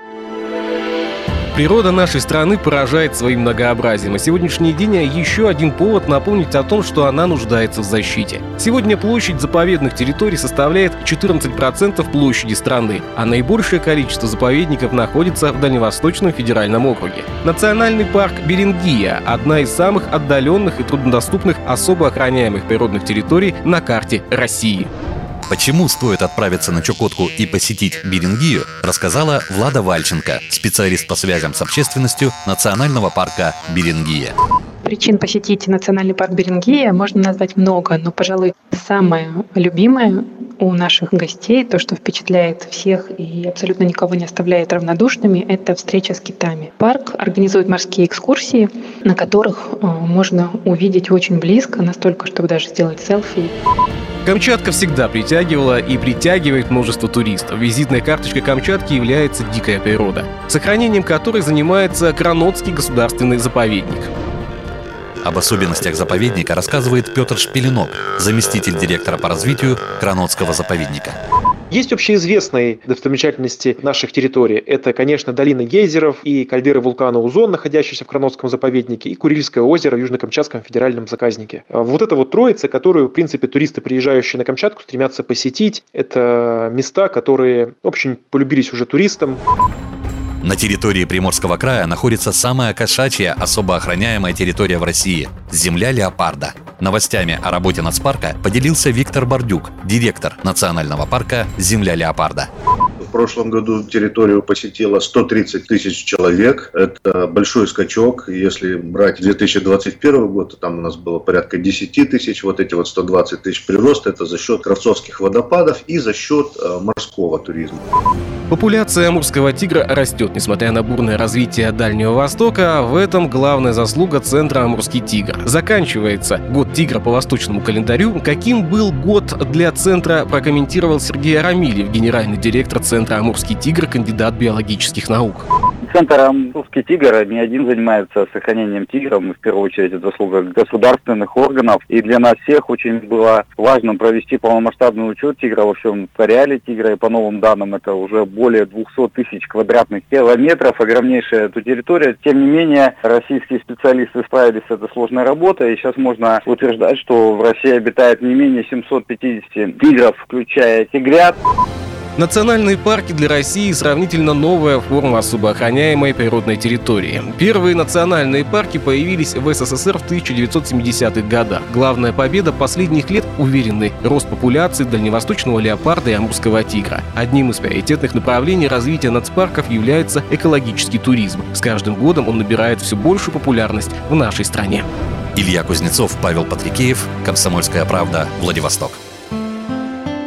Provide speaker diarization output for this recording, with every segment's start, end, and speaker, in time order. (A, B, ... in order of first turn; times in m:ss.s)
0:01.5-0:24.9 A
0:25.5-0:34.4 B
0:34.8-0:53.5 C
0:54.3-1:04.1 A
1:05.2-1:11.2 B
1:11.7-1:29.4 D
1:30.4-1:42.5 B
1:43.0-1:57.9 E
1:58.5-2:15.5 A
2:15.8-2:41.4 F
2:42.2-3:04.9 A
3:05.4-3:09.0 B